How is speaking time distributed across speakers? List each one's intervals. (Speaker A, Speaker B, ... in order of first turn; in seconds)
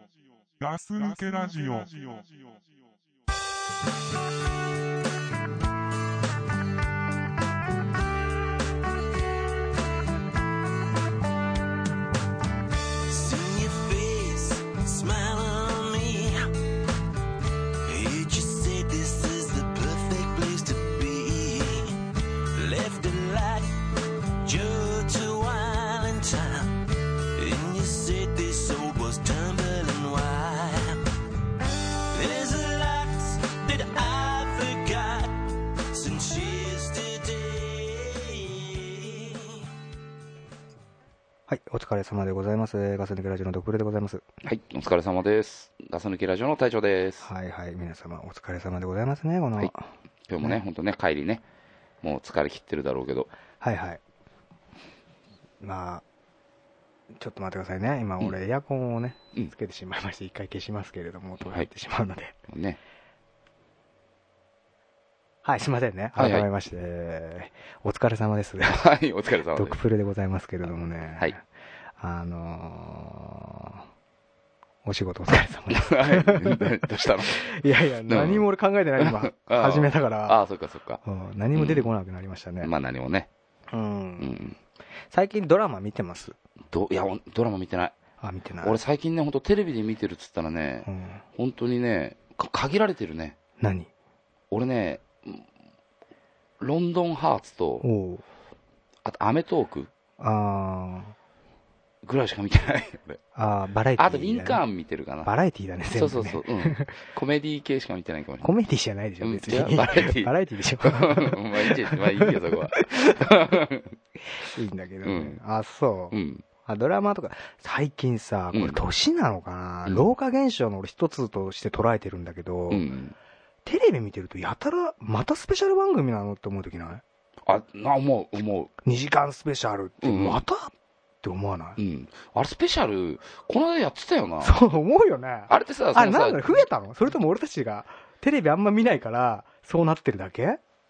Speaker A: 0.6-2.6
Speaker B: 13.1-16.5, 17.9-31.1, 31.6-39.6
Speaker C: 41.5-44.2, 47.2-49.9, 53.6-54.0, 55.6-56.0, 57.1-62.4, 65.5-68.9, 69.5-71.4, 72.0-73.8, 74.8-80.4, 81.0-82.7, 83.7-84.3, 85.1-86.3, 88.2-88.8, 90.9-91.2, 93.6-93.9, 97.8-98.2, 100.2-101.1, 103.3-104.6, 105.2-107.0, 108.4-113.6, 114.4-116.2, 116.7-122.8, 123.7-127.0, 128.8-130.7, 131.2-131.8, 134.4-140.6
Speaker D: 44.4-47.3, 50.3-51.4, 52.0-53.3, 61.4-61.7, 62.5-62.8, 66.2-66.5, 68.7-69.8, 75.7-77.4, 78.1-78.5, 79.0-81.0, 81.5-81.9, 82.6-83.3, 84.2-84.6, 86.7-88.0, 88.6-93.4, 94.5-95.5, 96.6-97.8, 99.0-99.9, 102.0-103.2, 104.0-105.3, 105.9-108.6, 109.2-113.9, 115.0-115.4, 116.1-116.4, 118.5-118.8, 122.7-123.2, 127.5-128.7, 130.0-130.4, 131.8-134.6, 135.5-136.7